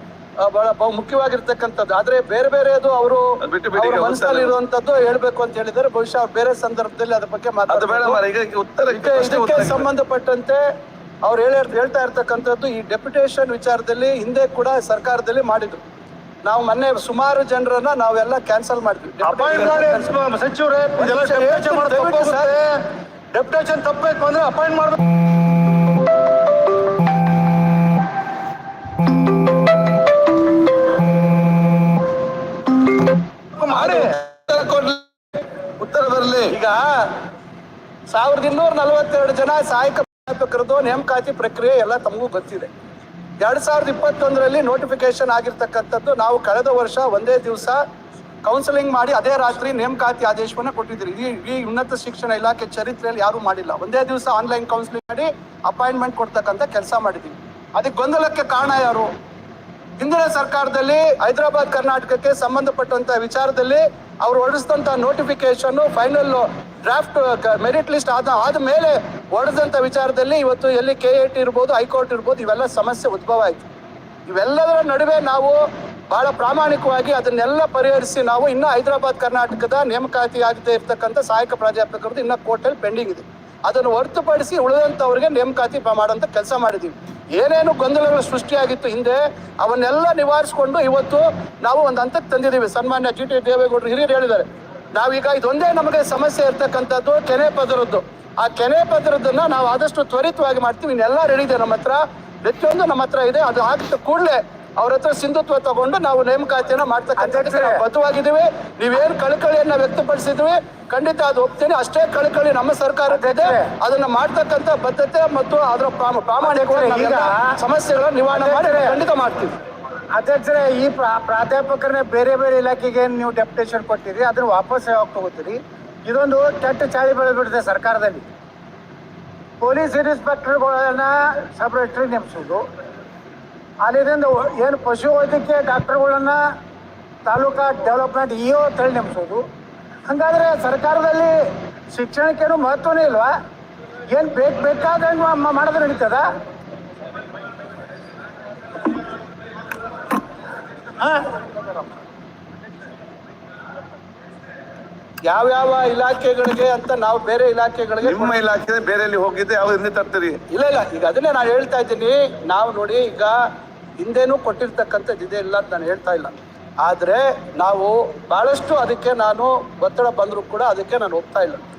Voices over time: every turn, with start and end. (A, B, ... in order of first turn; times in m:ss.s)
0:00.4-0:08.2 A
0:03.4-0:04.5 B
0:07.7-0:09.8 B
0:08.9-0:10.6 A
0:11.2-0:15.8 A
0:16.4-0:20.1 A
0:19.2-0:22.8 C
0:21.0-0:22.5 A
0:23.3-0:25.1 C
0:33.6-0:34.1 C
0:33.7-0:35.0 B
0:35.8-0:36.5 B
0:36.5-0:37.1 A
0:38.1-0:42.7 A
0:43.4-0:47.8 A
0:48.4-0:59.1 A
1:00.0-1:13.6 A
1:14.3-1:59.5 A
1:47.2-1:47.8 D
1:53.1-1:53.7 D
1:56.4-1:57.6 D
1:58.3-1:59.0 D
2:00.1-2:08.3 D
2:09.6-2:12.6 D
2:13.8-2:16.4 D
2:17.2-2:19.4 D
2:20.1-2:23.3 D
2:24.1-2:26.2 D
2:31.0-2:31.6 D
2:35.2-2:38.4 A
2:38.0-2:40.4 B
2:40.5-2:43.4 A
2:44.0-2:51.6 A